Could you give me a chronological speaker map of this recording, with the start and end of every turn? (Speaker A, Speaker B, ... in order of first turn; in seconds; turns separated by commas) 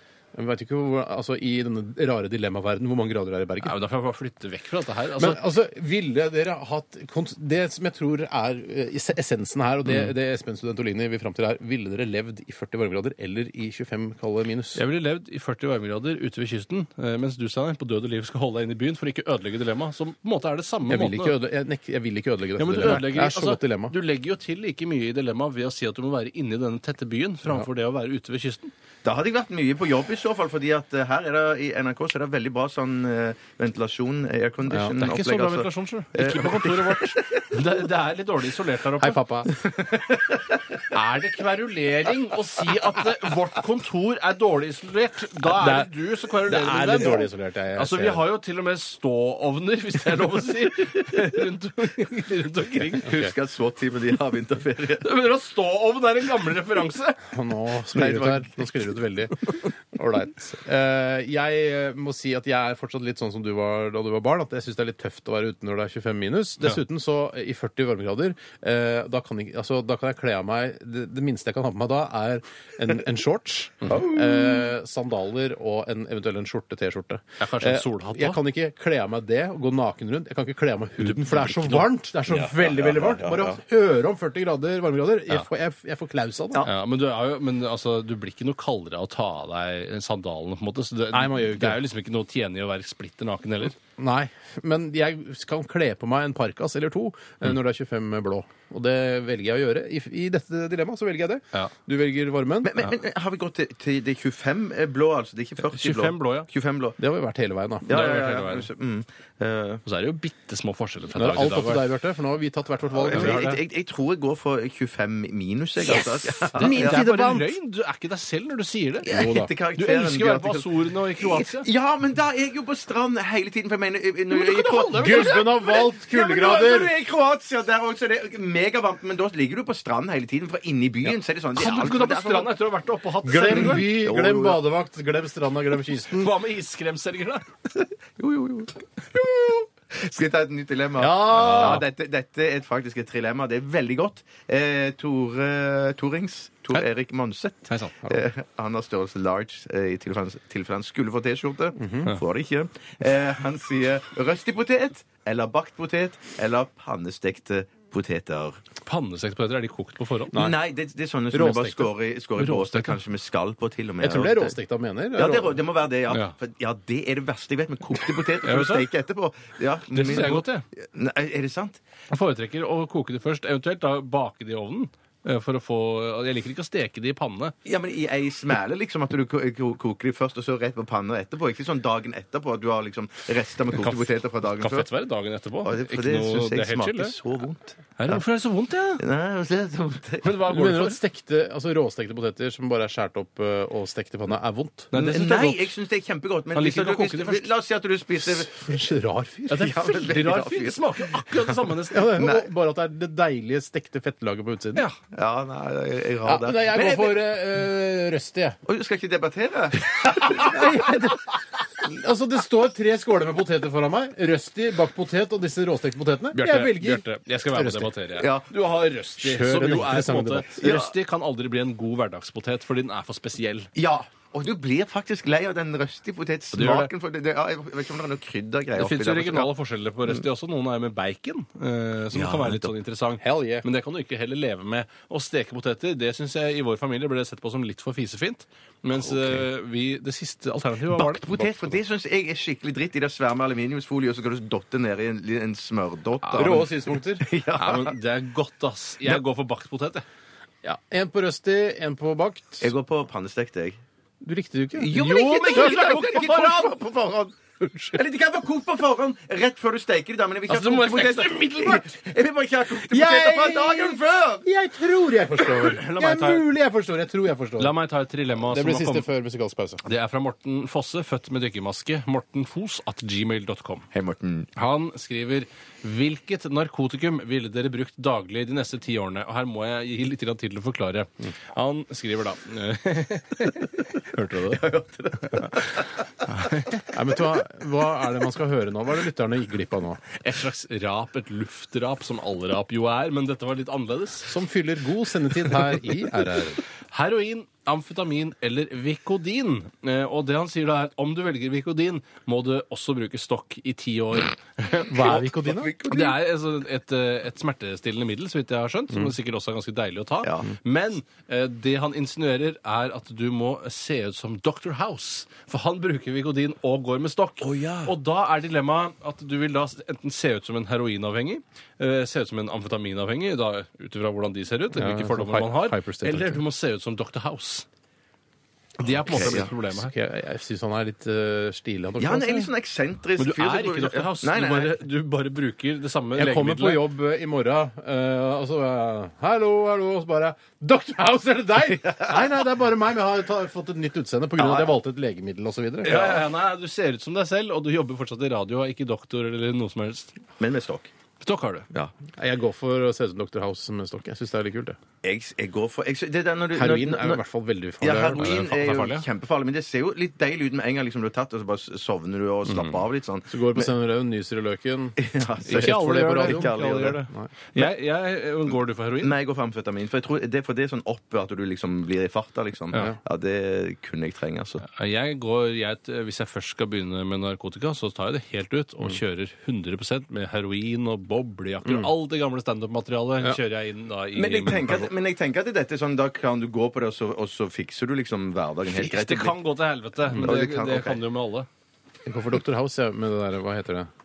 Speaker A: 0.3-3.7, Speaker B: 3.6-5.4, Speaker A: 5.2-14.8, Speaker B: 14.8-21.4, Speaker A: 20.9-23.9, Speaker B: 22.6-28.7, Speaker C: 29.0-37.6, Speaker B: 34.8-39.2, Speaker A: 39.0-39.5, Speaker B: 40.9-53.1, Speaker A: 45.4-45.9, Speaker A: 46.5-48.2, Speaker C: 53.0-55.0, Speaker B: 55.0-57.2, Speaker A: 57.3-86.7, Speaker C: 57.9-58.7, Speaker C: 73.8-74.6, Speaker B: 77.4-78.4, Speaker B: 81.0-81.9, Speaker C: 82.3-83.6, Speaker B: 86.6-93.8, Speaker A: 91.1-91.8, Speaker A: 94.0-102.7, Speaker C: 102.6-107.0, Speaker B: 105.6-106.5, Speaker A: 107.0-108.0, Speaker C: 107.8-109.8, Speaker B: 107.9-108.7, Speaker B: 109.8-111.8, Speaker A: 111.2-113.6, Speaker C: 112.9-117.0, Speaker B: 115.8-121.7, Speaker A: 116.5-117.5, Speaker C: 119.0-120.7, Speaker A: 119.1-119.5, Speaker C: 121.2-132.5, Speaker B: 124.3-125.4, Speaker A: 125.0-126.9, Speaker B: 131.5-133.9, Speaker A: 133.2-136.3, Speaker C: 133.4-134.6, Speaker B: 136.0-137.4, Speaker C: 138.2-158.6, Speaker A: 141.0-141.8, Speaker B: 141.3-141.8, Speaker B: 147.7-148.0, Speaker A: 151.8-152.1, Speaker B: 158.8-160.3, Speaker C: 160.3-164.6, Speaker A: 161.3-161.9, Speaker B: 162.4-163.0, Speaker A: 164.0-165.6, Speaker C: 165.1-171.8, Speaker B: 168.4-168.9, Speaker B: 169.9-170.6, Speaker B: 172.1-177.5, Speaker C: 177.6-184.9, Speaker B: 183.8-187.2, Speaker C: 185.6-188.2, Speaker B: 188.0-189.0, Speaker C: 189.0-190.3, Speaker B: 190.2-191.0, Speaker A: 190.5-194.9, Speaker B: 194.9-195.7, Speaker C: 194.9-198.5, Speaker B: 196.5-197.5, Speaker A: 198.3-199.7, Speaker B: 199.5-202.2, Speaker C: 199.5-201.5, Speaker A: 201.9-204.8, Speaker C: 202.1-202.5, Speaker C: 205.1-207.2, Speaker A: 206.2-208.6, Speaker C: 208.7-210.7, Speaker A: 210.1-211.3, Speaker A: 211.8-217.9, Speaker B: 216.3-223.7, Speaker C: 218.2-218.5, Speaker A: 219.2-220.6, Speaker C: 220.6-220.9, Speaker C: 223.8-229.5, Speaker B: 226.5-226.9, Speaker B: 228.7-241.8, Speaker C: 232.1-232.7, Speaker A: 233.2-233.6, Speaker C: 239.1-239.4, Speaker C: 240.9-247.9, Speaker B: 246.2-246.6, Speaker A: 246.3-247.2, Speaker B: 247.5-250.0, Speaker A: 250.6-252.7, Speaker C: 252.6-253.8, Speaker A: 254.2-256.0, Speaker C: 254.8-257.4, Speaker B: 254.9-256.8, Speaker C: 257.9-264.4, Speaker B: 260.5-261.9, Speaker A: 262.8-267.7, Speaker B: 265.5-266.4, Speaker B: 267.6-269.1, Speaker A: 268.4-269.8, Speaker B: 269.8-273.9, Speaker C: 273.9-274.5, Speaker B: 274.6-284.7, Speaker C: 284.5-285.9, Speaker B: 285.2-285.6, Speaker B: 286.3-286.8, Speaker A: 286.9-290.0, Speaker B: 290.2-294.3, Speaker A: 294.3-296.6, Speaker B: 296.9-305.3, Speaker A: 304.9-305.7, Speaker C: 305.0-306.2, Speaker B: 305.8-327.6, Speaker C: 310.2-310.5, Speaker C: 317.4-317.9, Speaker A: 324.7-326.4, Speaker B: 328.8-329.9, Speaker C: 329.1-329.5, Speaker A: 329.1-332.5, Speaker C: 332.0-334.8, Speaker B: 333.2-336.8, Speaker A: 336.1-346.1, Speaker C: 341.9-342.2, Speaker C: 344.4-344.7, Speaker B: 345.8-350.2, Speaker C: 345.8-346.2, Speaker C: 350.4-350.9, Speaker B: 351.2-351.7, Speaker A: 352.2-354.8, Speaker C: 355.0-357.2, Speaker A: 356.5-358.3, Speaker C: 357.8-363.7, Speaker B: 358.2-359.1, Speaker B: 362.5-362.8, Speaker A: 363.3-366.5, Speaker C: 365.0-367.0, Speaker B: 365.4-369.1, Speaker C: 369.0-374.6, Speaker B: 374.6-384.9, Speaker A: 381.6-381.9, Speaker C: 384.1-389.4, Speaker B: 388.7-391.5, Speaker C: 390.1-391.0, Speaker A: 392.1-393.9